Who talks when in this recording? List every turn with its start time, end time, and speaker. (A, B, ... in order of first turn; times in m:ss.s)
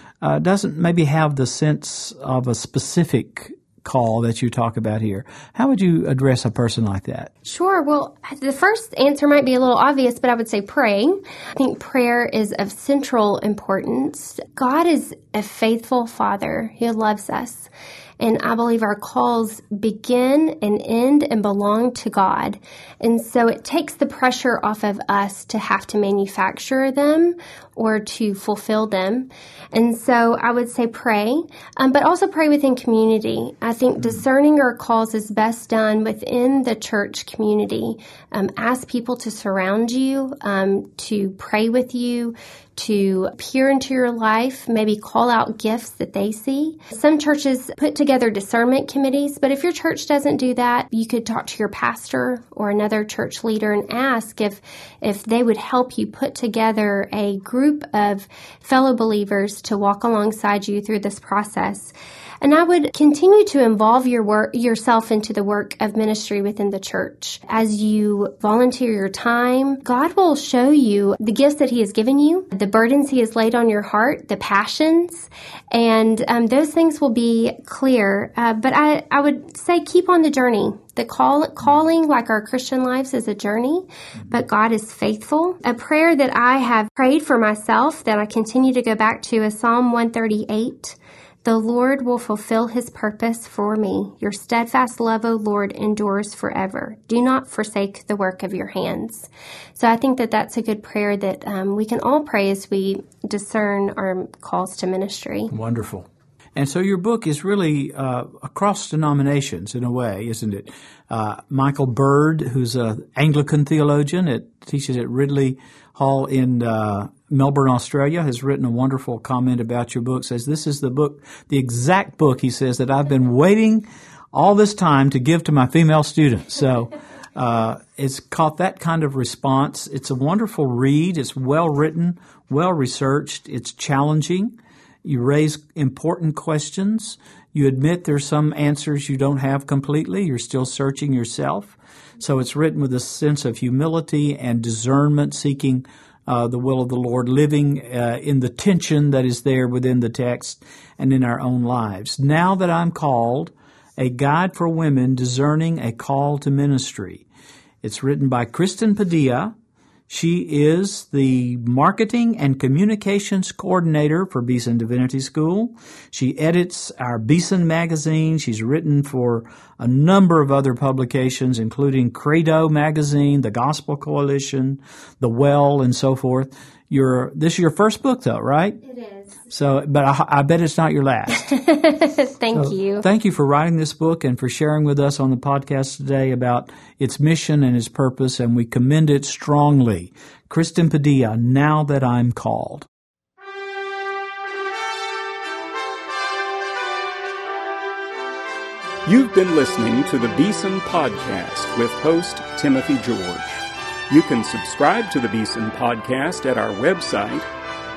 0:00.2-0:07.3 A
0:07.4-1:45.5 B
1:45.5-2:37.2 A
2:37.8-2:39.5 A
2:40.1-2:58.8 A
2:58.8-2:59.3 B
2:59.5-3:01.5 A
3:01.3-3:03.0 B
3:02.5-3:12.9 A
3:19.0-3:27.4 C